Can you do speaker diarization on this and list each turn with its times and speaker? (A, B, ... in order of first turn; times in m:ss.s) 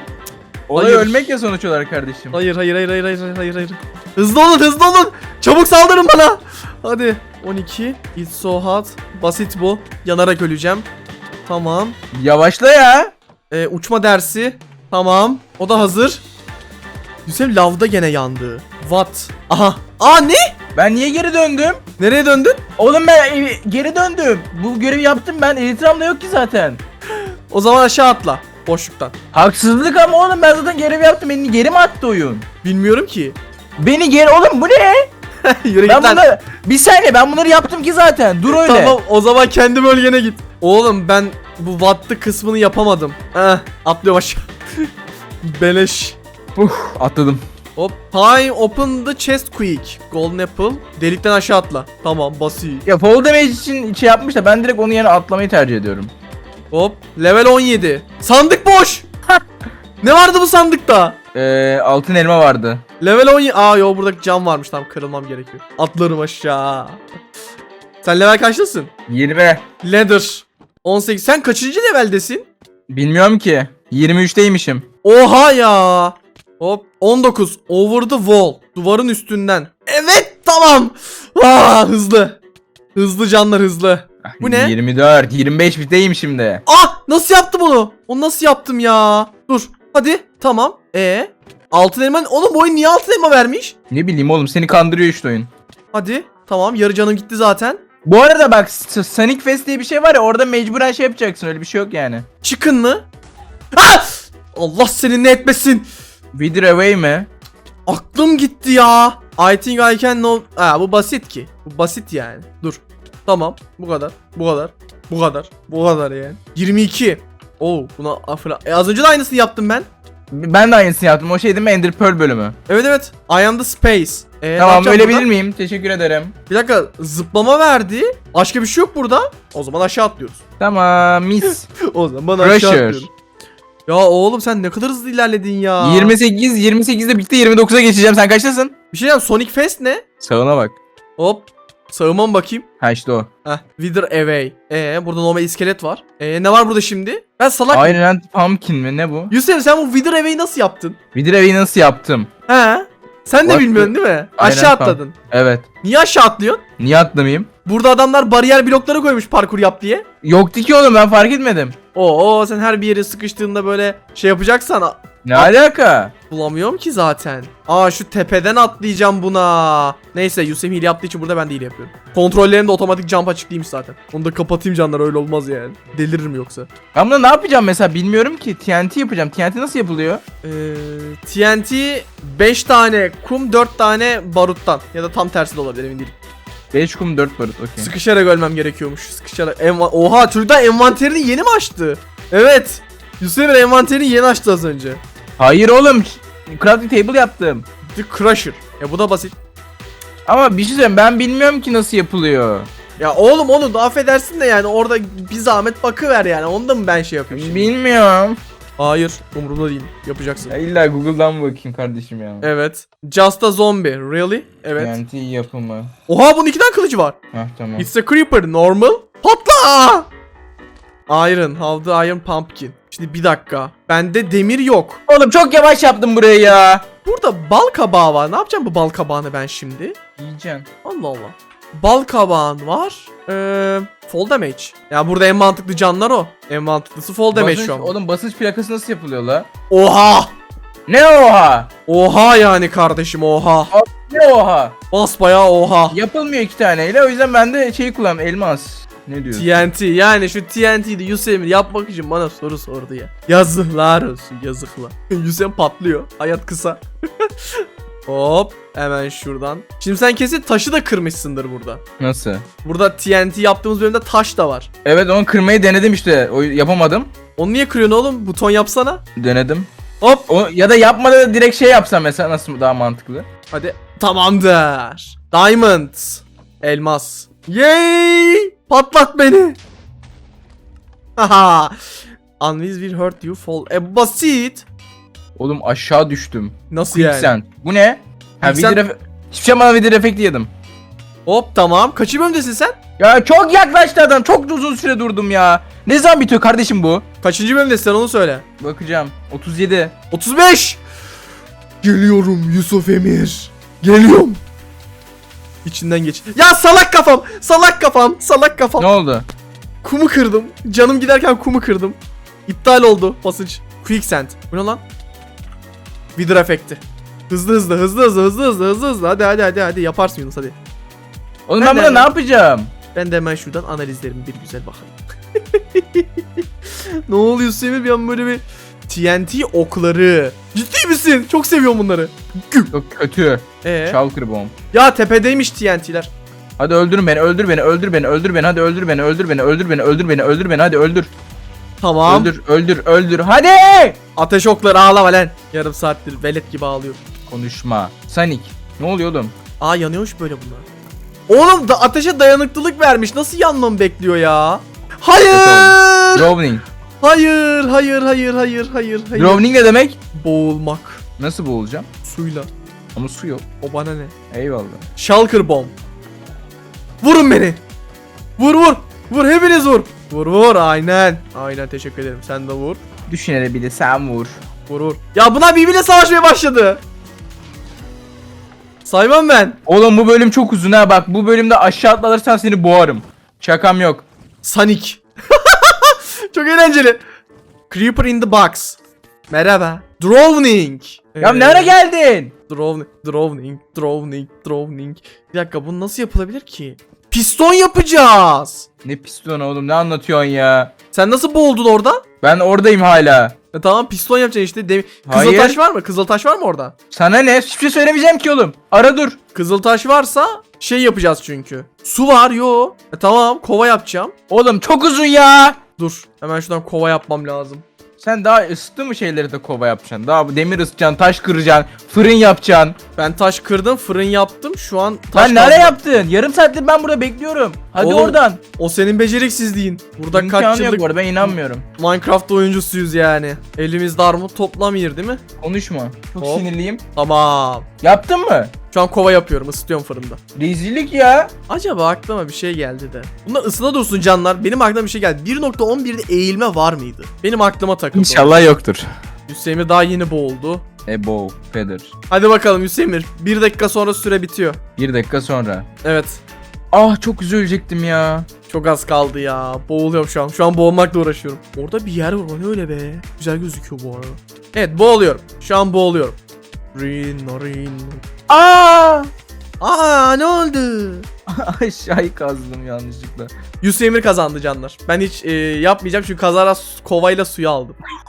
0:00.7-0:02.4 A
0:00.7-0:01.2 B
0:02.3-0:10.9 B
0:11.4-0:12.0 B
0:12.1-0:13.1 A
0:13.5-0:16.2 B
0:17.2-0:20.5 B
0:20.7-0:21.8 A
0:22.0-0:22.6 B
0:22.8-0:26.8 A
0:27.5-0:29.1 B
0:29.3-0:32.4 A
0:32.6-0:33.4 B
0:33.8-0:35.1 A
0:35.4-0:36.2 B
0:35.8-0:39.0 A
0:38.5-0:44.9 B
0:45.4-0:46.2 B
0:46.6-0:47.4 A
0:47.8-0:52.8 B
0:52.8-0:56.1 A
0:56.7-0:59.1 B
1:00.0-1:01.2 B
1:01.3-1:02.8 A
1:03.0-1:07.0 B
1:08.0-1:08.9 B
1:09.1-1:09.6 A
1:09.8-1:12.5 B
1:12.9-1:14.8 A
1:15.0-1:22.4 B
1:22.9-1:24.7 B
1:24.2-1:26.6 A
1:26.6-1:33.7 B
1:33.9-1:35.5 A
1:35.9-1:37.8 B
1:38.0-1:42.2 A
1:42.4-1:43.0 B
1:43.7-1:45.8 B
1:46.3-1:47.3 A
1:47.9-1:59.9 B
2:00.3-2:02.5 A
2:02.7-2:05.3 B
2:04.6-2:06.3 A
2:06.5-2:10.4 B
2:10.6-2:11.7 A
2:11.9-2:13.1 B
2:12.4-2:13.1 A
2:13.9-2:16.2 B
2:15.8-2:18.7 A
2:18.9-2:20.0 B
2:20.2-2:20.8 A
2:21.2-2:22.6 B
2:22.8-2:23.3 A
2:23.4-2:28.0 B
2:27.7-2:29.3 A
2:29.3-2:31.0 B
2:31.1-2:32.3 A
2:32.5-2:35.1 B
2:33.4-2:35.6 A
2:35.8-2:36.6 B
2:36.8-2:37.5 A
2:37.6-2:40.0 B
2:40.2-2:41.8 A
2:41.9-2:45.6 B
2:45.2-2:46.1 A
2:46.3-2:56.7 B
2:56.9-3:00.2 A
3:00.4-3:06.1 B
3:06.7-3:07.9 A
3:07.8-3:15.0 B
3:15.4-3:17.6 A
3:17.9-3:19.4 B
3:20.2-3:22.7 A
3:23.0-3:27.7 B
3:27.3-3:28.4 A
3:28.8-3:30.5 B
3:30.5-3:32.5 A
3:32.4-3:35.0 B
3:34.8-3:35.9 A
3:36.1-3:37.2 B
3:37.3-3:37.9 A
3:37.8-3:40.1 B
3:41.1-3:45.0 B
3:45.1-3:46.8 A
3:47.0-3:50.0 B
3:50.2-3:50.7 A
3:50.8-3:57.9 B
3:57.3-3:59.5 A
3:59.7-4:00.3 B
4:00.9-4:01.7 A
4:01.9-4:03.7 B
4:03.7-4:04.7 A
4:04.9-4:06.0 B
4:05.9-4:09.6 A
4:09.3-4:21.8 B
4:22.0-4:22.4 A
4:22.6-4:24.7 B
4:24.8-4:27.1 A
4:27.4-4:29.0 B
4:29.2-4:29.7 A
4:30.0-4:30.3 B
4:30.3-4:33.3 A
4:33.5-4:39.6 B
4:41.2-4:41.8 B
4:42.4-4:44.6 B
4:45.4-4:50.5 A
4:46.7-4:47.3 B
4:48.4-4:48.8 B
4:51.2-4:52.8 B
4:53.0-4:57.0 A
4:57.2-4:58.4 B
4:58.6-4:59.9 A
5:00.1-5:00.8 B
5:01.8-5:04.4 B
5:05.6-5:08.9 B
5:08.8-5:09.2 A
5:09.8-5:14.8 B
5:16.2-5:20.6 B
5:21.5-5:22.7 A
5:21.6-5:22.1 B
5:22.9-5:25.0 B
5:25.5-5:26.4 B
5:27.1-5:32.7 B
5:32.7-5:34.5 A
5:33.6-5:34.0 B
5:34.7-5:36.1 B
5:36.6-5:41.1 A
5:41.8-5:42.3 B
5:42.0-5:44.0 A
5:44.2-5:47.0 B
5:47.3-5:49.3 A
5:49.6-5:50.6 B
5:51.3-5:56.3 B
5:55.3-5:56.6 A
5:57.0-5:59.6 B
5:59.1-6:00.0 A
6:00.1-6:01.0 B
6:01.2-6:01.8 A
6:02.0-6:02.5 B
6:02.9-6:03.4 A
6:03.6-6:04.1 B
6:04.3-6:04.8 A
6:05.0-6:05.7 B
6:07.0-6:07.6 B
6:08.4-6:12.8 B
6:13.1-6:14.4 A
6:14.7-6:16.8 B
6:18.8-6:19.6 B
6:19.7-6:24.0 A
6:24.4-6:27.0 B
6:27.7-6:28.8 B
6:29.3-6:31.8 B
6:31.2-6:32.3 A
6:32.5-6:38.7 B
6:38.8-6:40.7 A
6:40.9-6:42.0 B
6:42.2-6:43.3 A
6:43.5-6:46.7 B
6:45.1-6:45.6 A
6:46.9-6:49.2 A
6:49.3-6:54.1 B
6:54.3-6:55.6 A
6:55.8-6:57.6 B
6:58.0-7:02.8 A
7:03.0-7:05.8 B
7:05.1-7:08.4 A
7:07.8-7:15.2 B
7:10.1-7:11.6 A
7:15.4-7:16.8 A
7:16.2-7:17.7 B
7:17.8-7:18.5 A
7:18.7-7:20.2 B
7:20.3-7:21.3 A
7:21.5-7:28.5 B
7:27.9-7:28.9 A
7:29.3-7:30.6 B
7:30.8-7:31.9 A
7:32.1-7:34.6 B
7:34.8-7:35.7 A
7:35.8-7:36.2 B
7:36.7-7:38.3 A
7:38.5-7:46.2 B
7:46.7-7:48.0 B
7:48.3-7:49.1 A
7:49.6-7:51.1 B
7:51.3-7:53.3 A
7:53.6-7:57.8 B